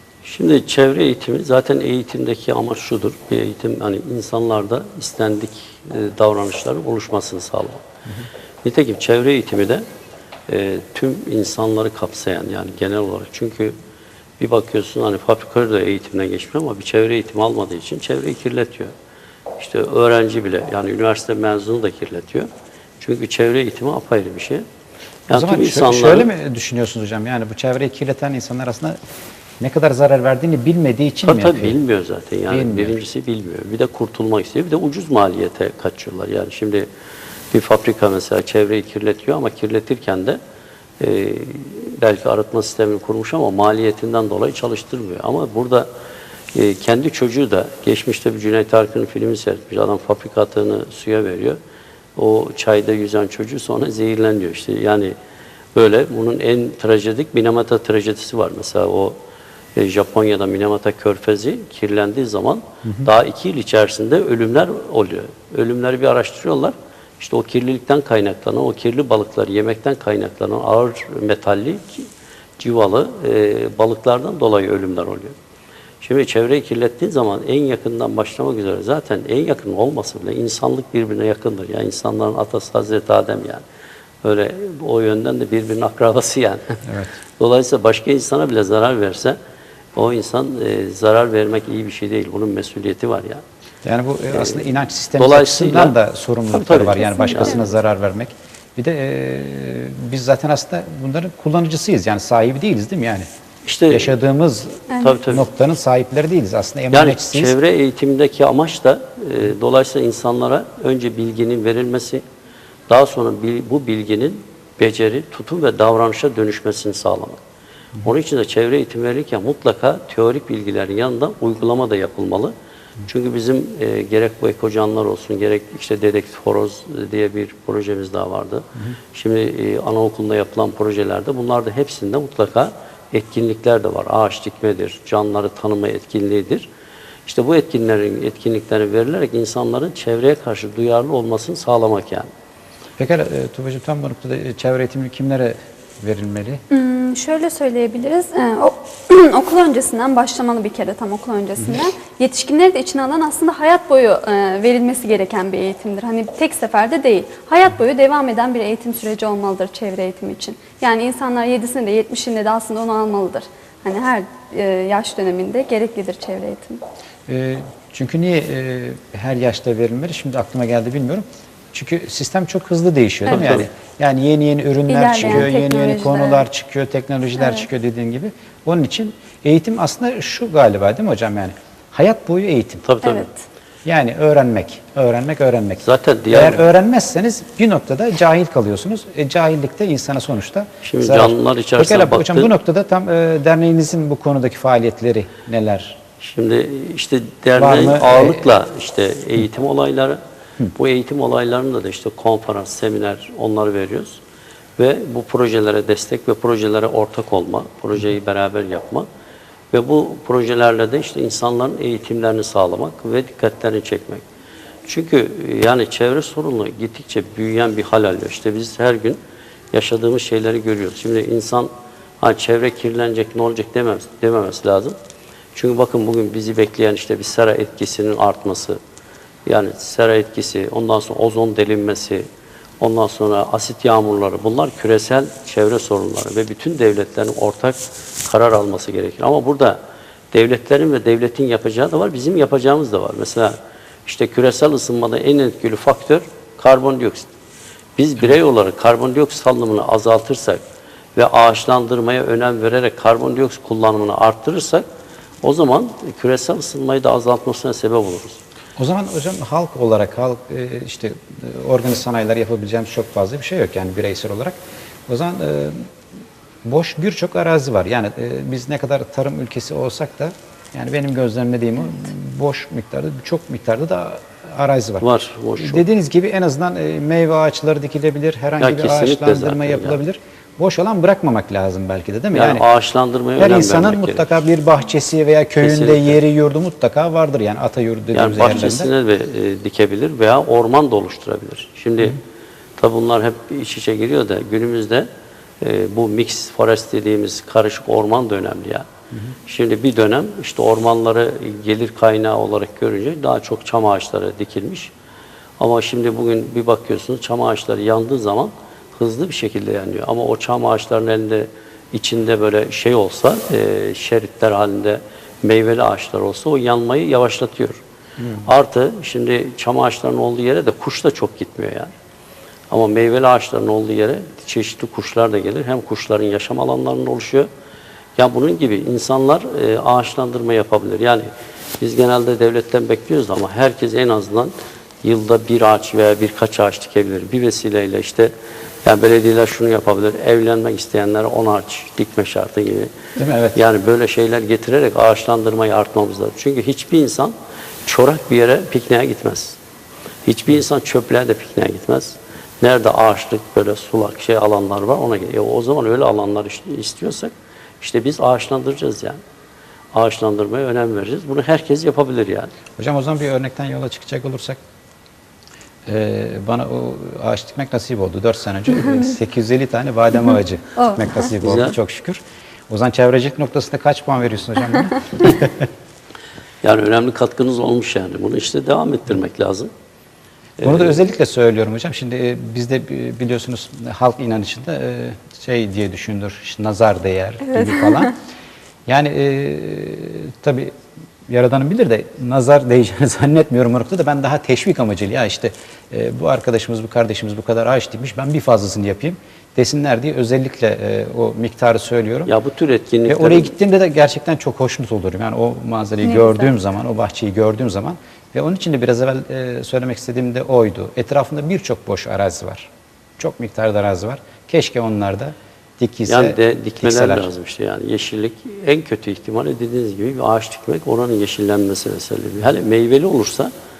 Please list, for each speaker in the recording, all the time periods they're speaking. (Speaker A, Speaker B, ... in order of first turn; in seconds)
Speaker A: 0.2-7.8, 8.6-9.8, 10.5-13.8, 14.4-18.9, 19.6-22.5, 23.0-24.6, 25.3-26.3, 31.2-36.9, 37.5-40.4, 41.0-45.9, 46.5-51.6, 52.2-55.1, 55.8-59.2, 59.8-72.1, 72.6-75.3, 76.0-83.6, 84.2-86.8, 87.4-89.4, 90.0-93.4, 94.3-94.7, 95.2-96.0, 96.5-97.7, 103.7-104.2, 105.0-105.5, 106.9-112.2, 112.9-117.4, 118.0-122.5, 123.1-136.7, 137.2-142.3, 173.3-173.7, 182.8-183.2, 185.8-186.7, 190.8-192.5, 196.2-200.2, 200.8-204.2, 204.8-209.1, 209.7-214.2, 214.9-219.2, 219.7-225.0, 225.6-228.8, 229.5-232.2, 232.8-239.8, 240.3-247.3, 248.0-250.6, 251.2-254.8, 255.4-258.4, 275.0-275.8, 278.6-280.0, 282.3-284.4, 285.6-286.2, 288.1-292.2, 292.8-295.1, 295.6-298.9, 299.5-304.9, 305.6-317.8, 318.4-321.9, 322.7-327.5, 328.2-331.3, 331.8-338.3, 338.8-342.9, 343.5-347.3, 347.9-349.6, 350.2-359.2, 359.9-362.5, 371.4-371.8, 376.6-379.7, 380.6-381.0, 402.3-403.5, 416.1-423.5
Speaker B: 25.3-29.0, 29.6-31.8, 32.5-33.0, 86.8-87.2, 93.8-103.3, 103.9-107.5, 143.0-146.6, 167.3-182.8, 183.8-196.0, 197.6-198.6, 258.8-265.9, 266.6-282.6, 283.4-288.9, 318.2-318.5, 343.2-343.6, 362.8-364.6, 365.9-375.7, 380.6-388.2, 388.9-390.7, 391.3-402.3, 403.1-417.3
Speaker C: 97.1-97.6, 104.9-105.2, 146.7-166.8, 174.9-176.4, 177.4-177.7, 183.0-183.4, 370.8-371.3, 387.7-388.1, 406.0-406.5